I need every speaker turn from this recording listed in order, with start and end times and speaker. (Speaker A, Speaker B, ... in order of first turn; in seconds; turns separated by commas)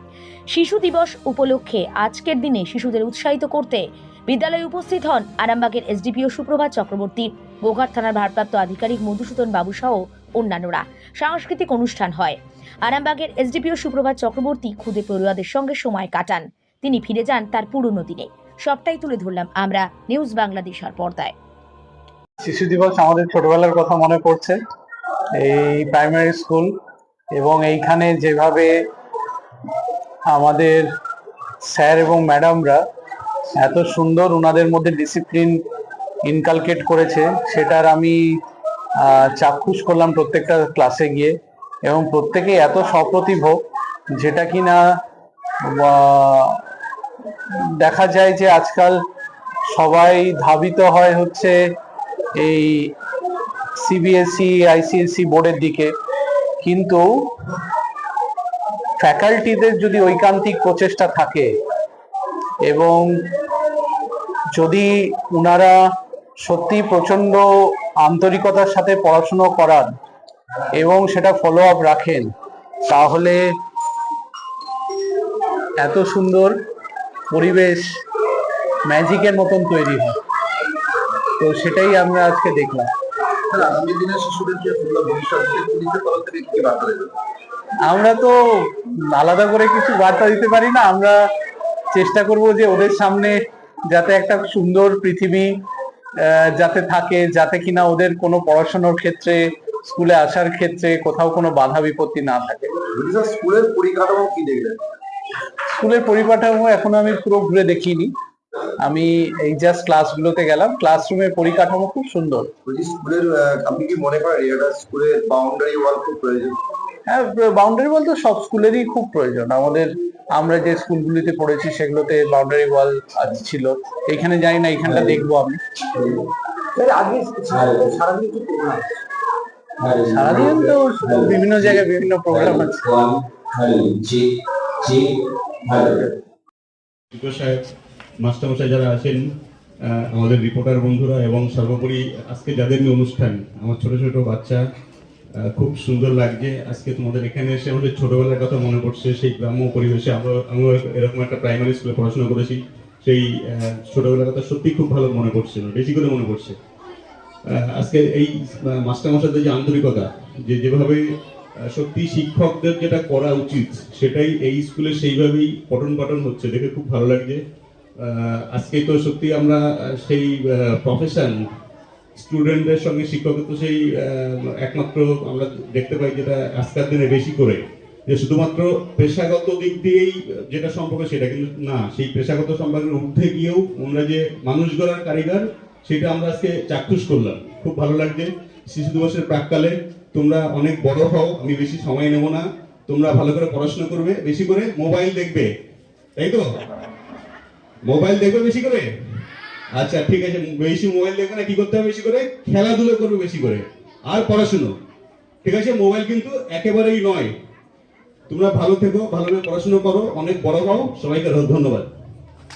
Speaker A: 0.5-21.3, Speaker B: 22.4-24.6, Speaker B: 25.4-26.7, Speaker B: 27.4-28.7, Speaker B: 30.3-30.9, Speaker B: 31.7-32.8, Speaker B: 33.6-35.6, Speaker B: 36.2-38.2, Speaker B: 39.0-41.3, Speaker B: 41.8-43.6, Speaker B: 44.2-44.8, Speaker B: 45.7-46.6, Speaker B: 47.8-49.0, Speaker B: 49.7-51.5, Speaker B: 52.4-52.9, Speaker B: 53.8-55.9, Speaker B: 56.6-57.0, Speaker B: 59.0-61.5, Speaker B: 62.7-63.0, Speaker B: 64.5-65.8, Speaker B: 66.4-67.4, Speaker B: 68.0-69.9, Speaker B: 70.8-72.3, Speaker B: 72.9-73.4, Speaker B: 75.8-76.5, Speaker B: 77.3-77.9, Speaker B: 78.9-80.2, Speaker B: 81.4-82.9, Speaker C: 83.5-87.1, Speaker B: 87.9-88.3, Speaker B: 89.1-91.2, Speaker B: 91.9-93.4, Speaker B: 93.9-95.5, Speaker B: 96.2-102.8, Speaker C: 102.9-104.8, Speaker B: 105.8-108.1, Speaker B: 108.8-112.5, Speaker C: 112.7-116.6, Speaker B: 117.1-125.6, Speaker C: 124.9-125.2, Speaker C: 125.9-126.2, Speaker C: 126.8-128.8, Speaker C: 129.8-134.3, Speaker B: 130.1-132.8, Speaker C: 134.8-136.1, Speaker D: 137.1-137.6, Speaker D: 138.2-139.2, Speaker D: 139.8-144.6, Speaker D: 145.4-156.6, Speaker D: 157.5-161.0, Speaker D: 161.7-167.4, Speaker D: 168.0-171.4, Speaker D: 172.2-195.5, Speaker D: 196.2-196.5, Speaker D: 197.9-198.9, Speaker D: 199.8-204.7, Speaker D: 205.4-207.3, Speaker D: 208.3-211.9